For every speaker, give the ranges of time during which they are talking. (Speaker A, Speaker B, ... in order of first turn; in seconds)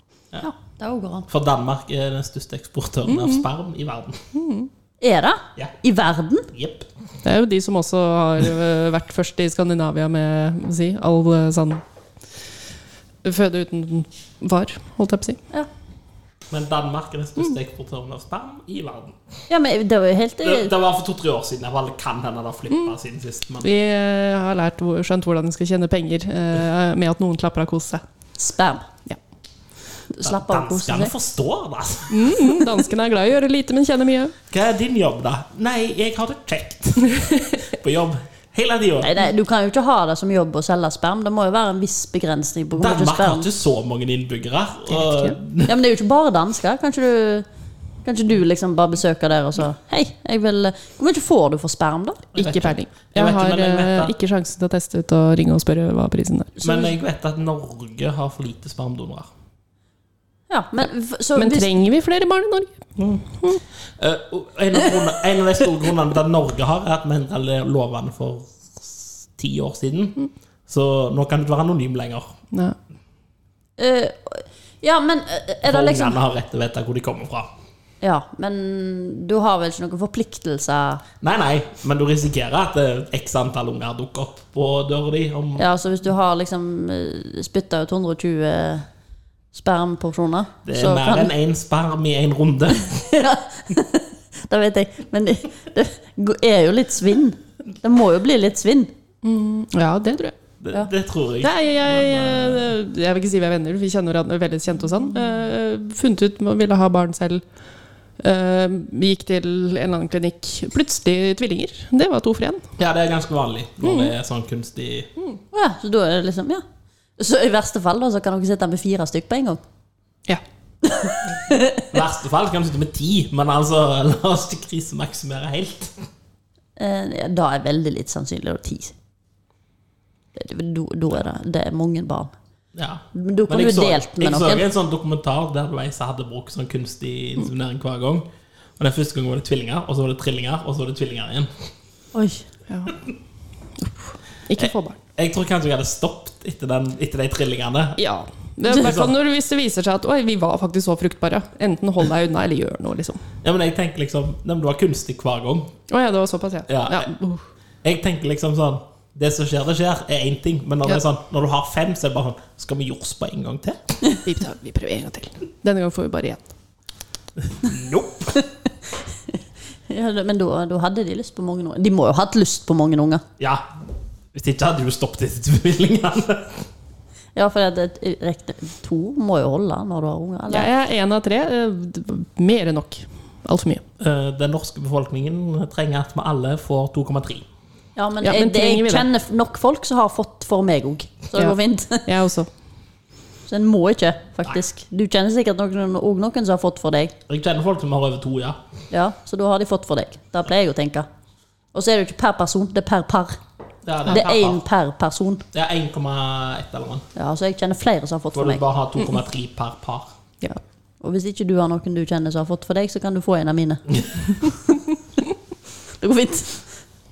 Speaker A: 0.4-1.3, 5.0-6.5, 19.5-20.7, 28.4-28.9, 30.1-31.1, 39.0-43.5, 45.6-47.5, 48.0-52.3, 60.5-61.7, 73.8-76.2, 78.0-81.0, 85.6-88.9, 89.5-91.3, 92.9-98.9, 115.5-116.6, 117.2-119.6, 120.8-121.9, 126.8-128.9, 130.4-132.3, 133.1-134.6, 142.1-142.4, 169.9-173.2, 177.3-180.7, 187.9-192.1, 193.5-197.1, 198.9-201.1, 201.7-203.4, 204.1-205.4, 207.1-208.6, 211.0-213.8, 214.4-214.8, 216.0-216.7
Speaker B: 1.3-4.2, 6.5-6.9, 16.5-19.2, 20.4-23.7, 30.2-32.7, 34.5-39.1, 42.7-45.7, 52.3-54.1, 56.6-59.3, 63.0-63.3, 64.0-72.3, 75.6-77.5, 81.2-85.6, 90.7-93.0, 100.6-102.7, 112.8-115.1, 121.9-126.0, 132.7-141.5, 144.6-148.0, 148.7-149.1, 153.4-155.7, 156.7-157.1, 157.8-163.8, 167.4-168.3, 173.4-173.7, 174.3-176.7, 184.0-187.4, 197.3-198.6, 203.8-204.6, 205.5-207.1, 208.3-210.1
Speaker C: 3.1-3.4, 4.3-4.7, 7.2-11.8, 13.2-15.4, 23.6-28.0, 32.1-34.3, 45.0-45.3, 52.4-56.8, 61.4-62.8, 99.2-100.3, 101.4-107.4, 108.2-112.7, 113.8-114.1, 142.7-142.9, 143.8-145.0, 148.0-153.3, 155.9-157.4, 164.2-166.4, 180.5-183.8, 188.2-189.1, 191.4-192.5